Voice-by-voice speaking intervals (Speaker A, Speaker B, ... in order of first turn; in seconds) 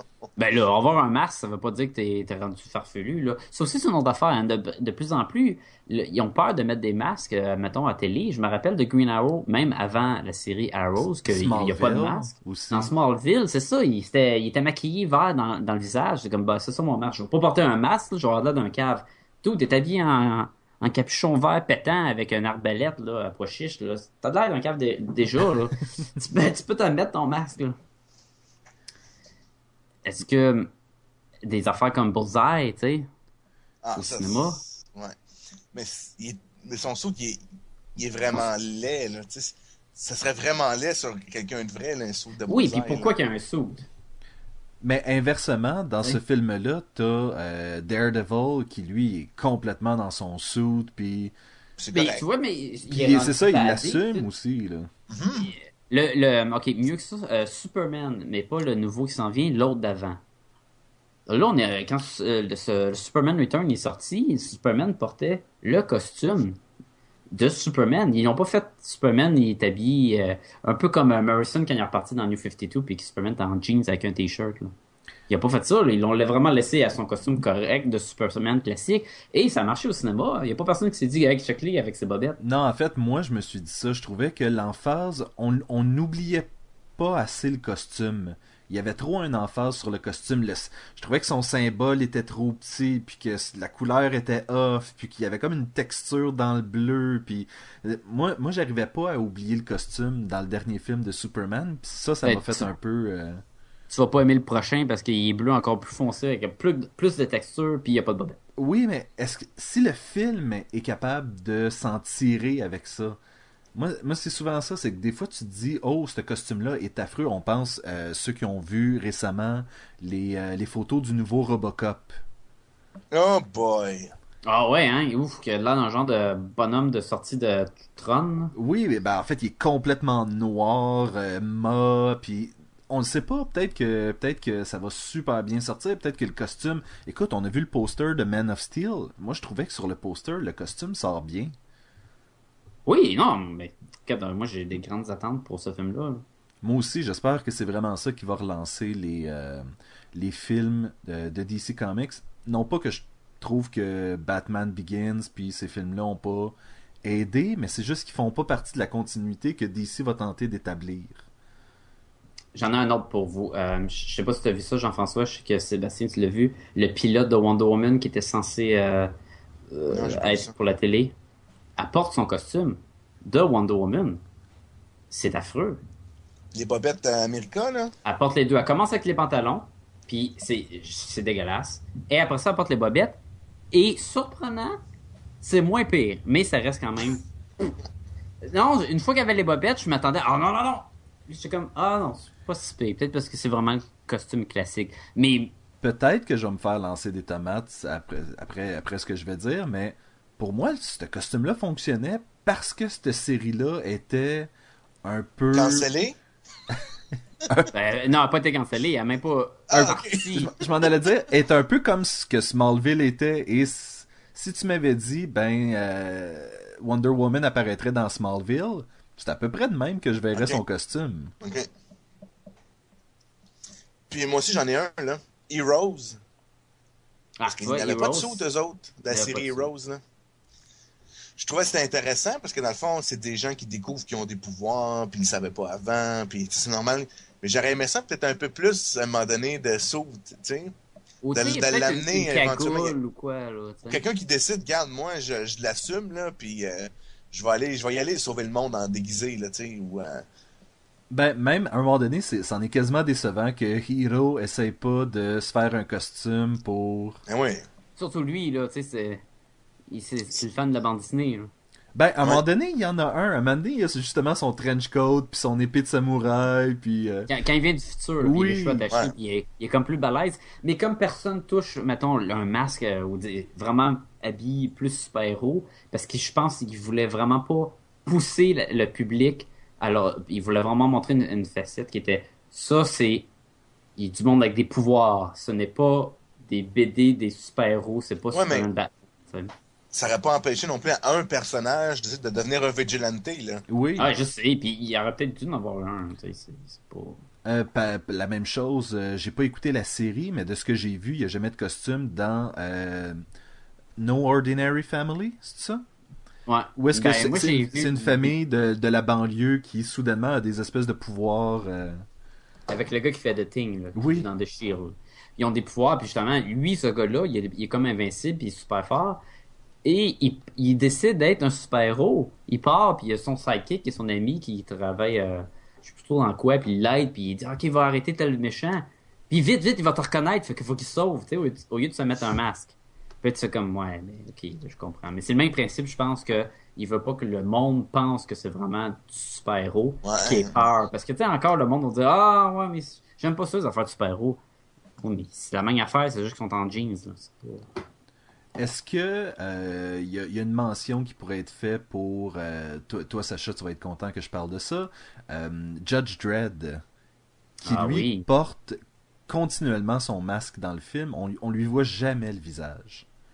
Speaker A: 0.4-27.8, 30.1-30.7, 31.4-33.1, 34.0-34.6, 42.5-43.9, 51.9-54.3, 55.4-60.2, 61.3-66.6, 67.3-74.7, 75.3-82.4, 102.2-102.7, 103.9-108.4, 124.5-128.5, 142.9-146.2, 162.6-169.1, 169.7-171.1, 171.8-174.2, 175.1-175.8, 178.1-183.2, 183.7-184.8, 185.4-187.2, 188.4-195.5, 207.7-210.5, 227.4-228.4, 229.1-229.7, 241.2-244.1, 258.0-259.2, 259.9-261.5, 267.3-283.3, 284.0-289.5, 294.0-297.2, 306.5-308.3, 312.7-319.2, 319.8-344.4, 345.0-347.7, 357.6-358.3
Speaker B: 11.2-12.9, 44.8-51.3, 52.9-54.9, 82.4-103.4, 108.6-113.2, 113.7-122.2, 128.6-141.6, 146.6-161.2, 195.8-204.5, 205.0-205.9, 207.5-207.7, 210.4-221.3, 251.1-257.2, 261.9-267.3, 268.2-268.9, 293.7-294.1, 297.4-303.2, 304.0-305.9, 306.8-312.0, 313.9-314.3, 348.6-356.8, 357.6-363.1
Speaker C: 33.8-35.2, 35.7-37.4, 38.0-43.1, 51.8-52.2, 55.1-55.5, 123.1-124.1, 169.9-170.5, 176.5-177.9, 205.5-206.2, 209.7-210.5, 221.4-221.7, 224.1-226.2, 227.5-230.0, 231.4-240.7, 241.3-243.0, 243.9-250.2, 257.3-257.7, 288.3-288.7, 289.9-293.6, 340.1-340.6